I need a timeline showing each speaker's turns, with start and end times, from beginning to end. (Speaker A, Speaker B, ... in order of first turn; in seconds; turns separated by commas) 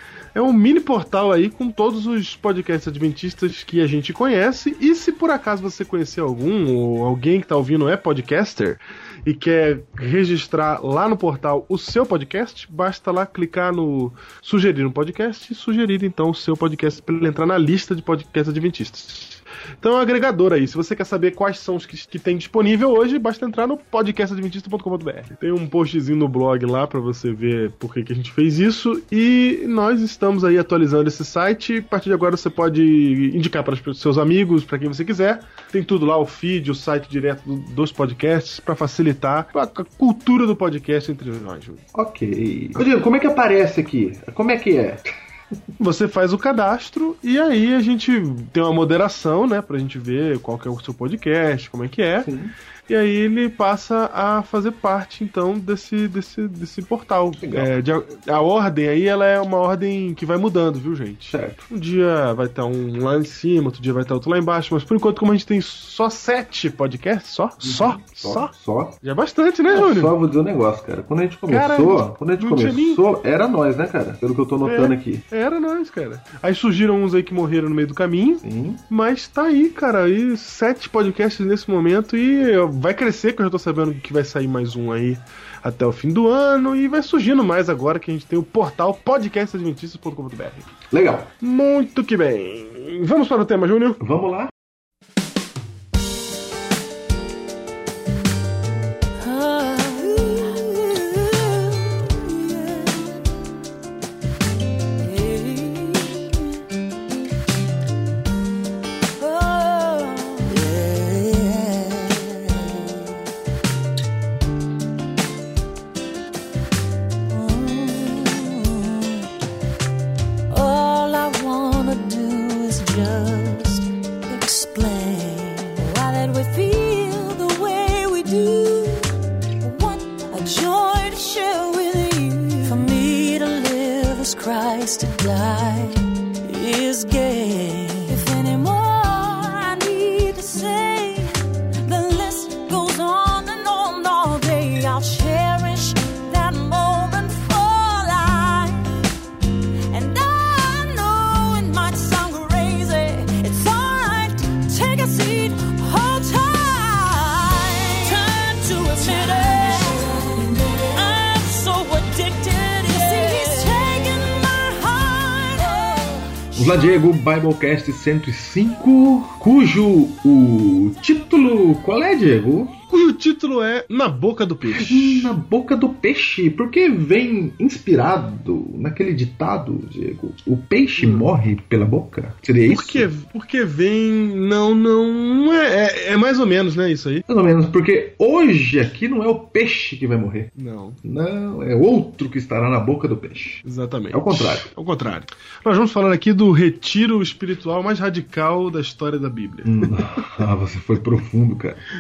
Speaker A: 0.3-41.8, Speaker B: 41.9-45.1, Speaker A: 45.8-52.3, Speaker B: 52.2-52.5, Speaker A: 52.9-70.2, Speaker B: 57.4-57.7, Speaker B: 61.3-61.6, Speaker B: 67.6-69.0, Speaker B: 69.7-75.2, Speaker A: 71.5-73.0, Speaker A: 74.7-90.7, Speaker B: 78.4-78.8, Speaker B: 90.9-91.3, Speaker A: 91.4-94.0, Speaker B: 94.0-94.5, Speaker C: 99.2-103.1, Speaker C: 105.0-106.5, Speaker C: 109.2-113.1, Speaker C: 117.3-119.3, Speaker C: 120.5-141.3, Speaker C: 141.8-148.9, Speaker C: 149.9-166.7, Speaker B: 166.6-172.8, Speaker A: 172.9-175.3, Speaker B: 174.7-183.1, Speaker A: 181.0-181.3, Speaker A: 182.7-187.2, Speaker B: 187.3-190.5, Speaker A: 190.6-191.0, Speaker B: 191.0-194.7, Speaker A: 193.6-200.3, Speaker B: 199.7-201.8